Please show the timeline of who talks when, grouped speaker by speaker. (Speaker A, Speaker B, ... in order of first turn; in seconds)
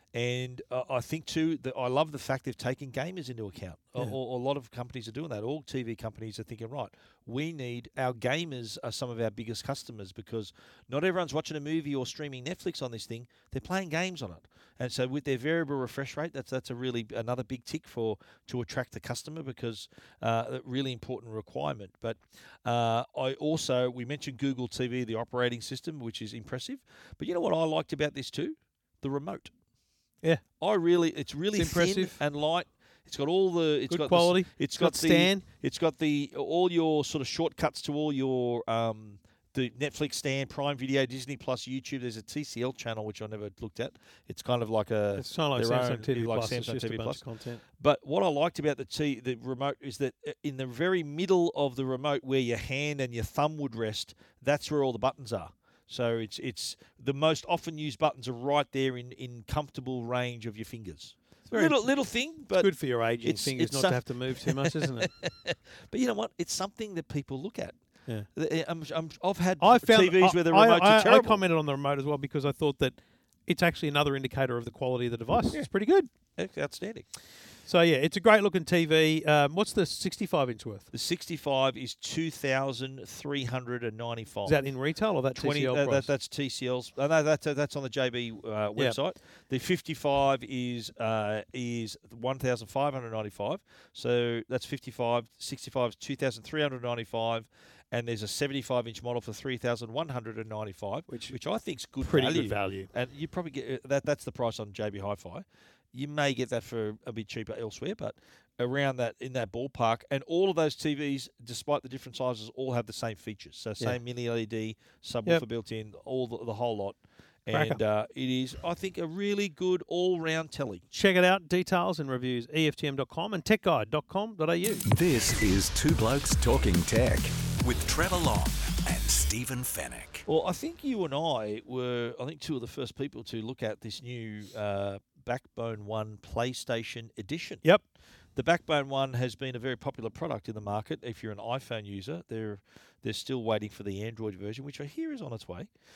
Speaker A: 0.1-29.5, 30.6-47.2, 47.8-67.8, 68.3-71.4, 76.3-77.1, 80.9-84.6, 85.3-120.8, 130.2-137.6, 138.3-145.7
Speaker B: 31.5-32.2, 33.9-35.4, 45.2-47.6, 61.5-61.9, 62.5-65.1, 69.6-76.1, 77.7-80.9, 84.5-86.1, 101.1-101.3, 102.0-102.9, 117.5-117.8, 120.9-124.8
Speaker C: 124.9-130.2